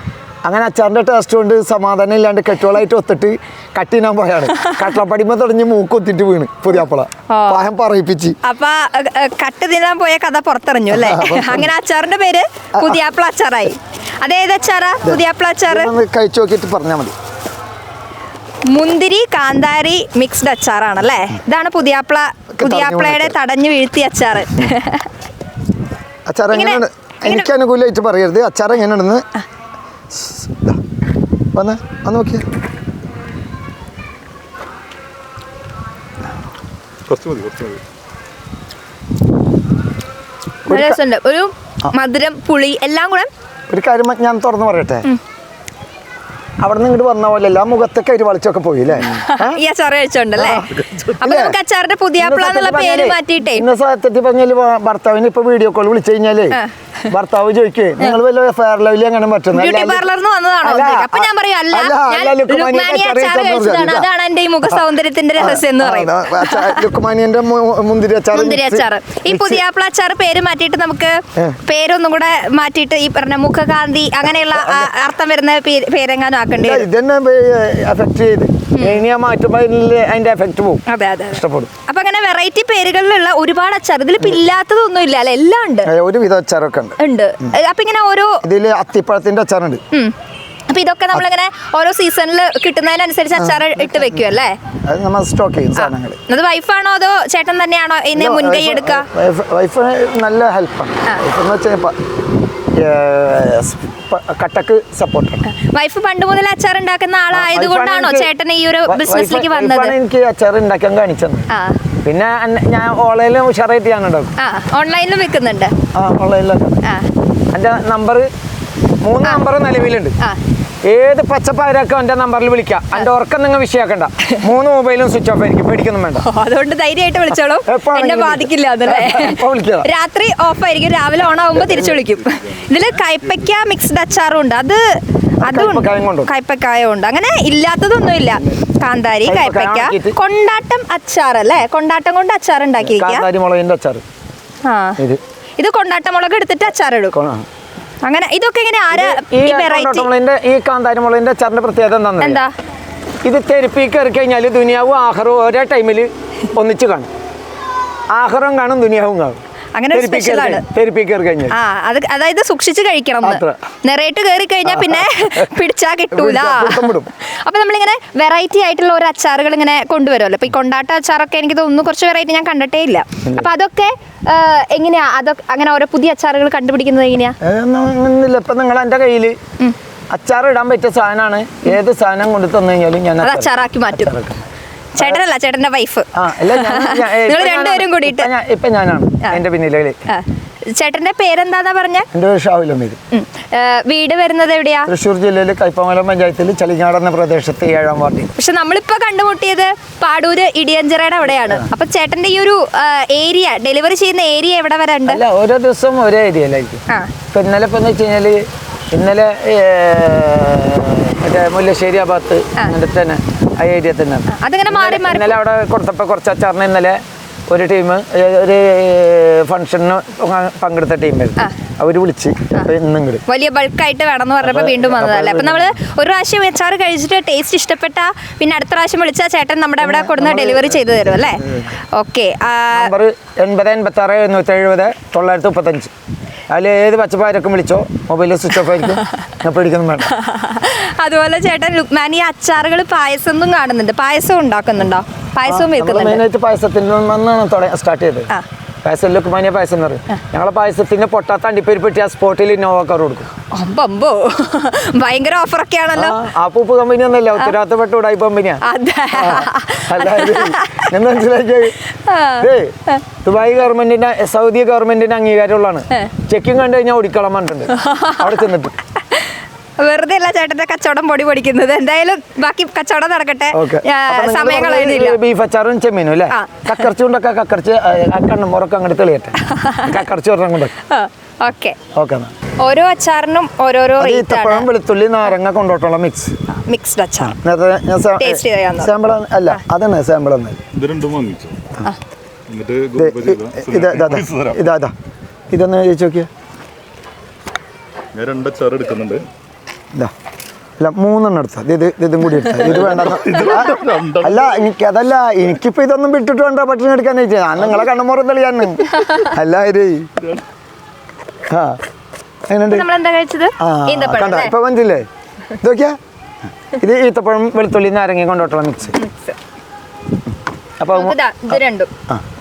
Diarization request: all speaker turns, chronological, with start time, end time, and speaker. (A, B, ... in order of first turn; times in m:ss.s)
0:00.4-0:08.4 A
0:04.5-0:04.9 B
0:07.3-0:07.6 B
0:08.4-0:15.9 B
0:10.9-0:11.7 A
0:15.0-0:17.1 A
0:18.7-0:25.1 B
0:22.6-0:23.4 A
0:26.3-0:29.3 A
0:26.5-0:27.5 B
0:30.1-0:30.8 A
0:31.5-0:32.4 A
0:37.1-0:37.8 C
0:40.7-0:41.0 A
0:40.7-0:43.3 B
0:43.7-0:45.1 A
0:46.6-0:49.6 A
0:49.1-0:53.7 B
0:50.4-0:51.6 A
0:52.2-1:00.1 A
0:59.5-1:06.9 B
1:00.6-1:04.1 A
1:05.4-1:09.6 A
1:08.3-1:16.9 B
1:14.5-1:14.9 A
1:16.6-1:21.7 A
1:18.7-1:19.0 B
1:20.9-1:25.9 B
1:25.8-1:27.5 A
1:27.0-1:28.4 B
1:28.4-1:29.8 A
1:30.7-1:34.6 B
1:33.3-1:34.2 A
1:34.8-1:36.2 A
1:35.8-1:39.1 B
1:38.1-1:41.9 A
1:42.8-1:45.4 A
1:45.5-1:49.9 B
1:47.3-1:48.3 A
1:48.8-1:51.5 A
1:51.5-1:51.8 B
1:52.0-1:54.3 A
1:54.4-1:55.7 B
1:55.9-1:56.8 A
1:56.8-1:57.1 B
1:57.5-1:58.3 A
1:59.0-2:00.2 A
2:00.8-2:06.2 A
2:06.2-2:14.8 B
2:07.6-2:09.9 A
2:15.4-2:16.3 A
2:15.4-2:23.3 B
2:19.2-2:20.2 A
2:22.8-2:24.0 A
2:24.6-2:25.0 B
2:25.6-2:27.1 B
2:27.1-2:27.4 A
2:28.0-2:30.1 B
2:28.9-2:32.4 A
2:32.2-2:32.5 B
2:33.2-2:37.1 A
2:38.1-2:39.4 A
2:39.7-2:40.6 B
2:39.9-2:41.5 A
2:41.5-2:57.4 B
2:43.2-2:43.6 A
2:44.6-2:45.6 A
2:46.1-2:47.1 A
2:57.4-2:59.4 A
3:00.1-3:04.4 A
3:03.2-3:04.1 B
3:04.9-3:08.3 B
3:06.1-3:10.0 A
3:10.1-3:12.1 B
3:12.1-3:13.0 A
3:13.1-3:14.9 B
3:14.9-3:18.3 A
3:18.4-3:25.2 B
3:21.3-3:21.7 A
3:25.0-3:43.2 A
3:34.3-3:35.4 B
3:43.2-3:52.9 B
3:44.4-3:45.8 A
3:49.8-3:51.8 A
3:52.7-3:55.9 A
3:56.5-4:00.1 A
4:00.0-4:06.2 B
4:05.4-4:08.3 A
4:08.8-4:13.3 A
4:13.5-4:16.2 B
4:16.0-4:21.8 A
4:18.6-4:20.9 B
4:22.0-4:23.0 B
4:22.4-4:28.7 A
4:27.7-4:28.3 B
4:29.8-4:35.2 B
4:33.5-4:40.7 A
4:36.3-4:36.8 B
4:39.5-4:40.0 B
4:40.9-4:41.8 B
4:41.9-4:42.3 A
4:42.6-4:44.7 B
4:44.0-4:46.3 A
4:46.7-4:47.4 B
4:47.3-4:50.6 A
4:48.2-4:48.9 B
4:50.7-4:51.6 C
4:52.5-4:54.6 C
4:53.0-4:54.9 A
4:55.5-4:56.3 A
4:58.1-4:59.3 C
5:00.8-5:10.2 A
5:02.7-5:04.4 C
5:11.5-5:11.8 A
5:12.5-5:12.8 A
5:12.7-5:14.5 B
5:13.6-5:15.1 A
5:15.6-5:16.0 A
5:16.8-5:19.0 A
5:18.9-5:19.4 B
5:20.8-5:22.2 A
5:20.9-5:21.9 B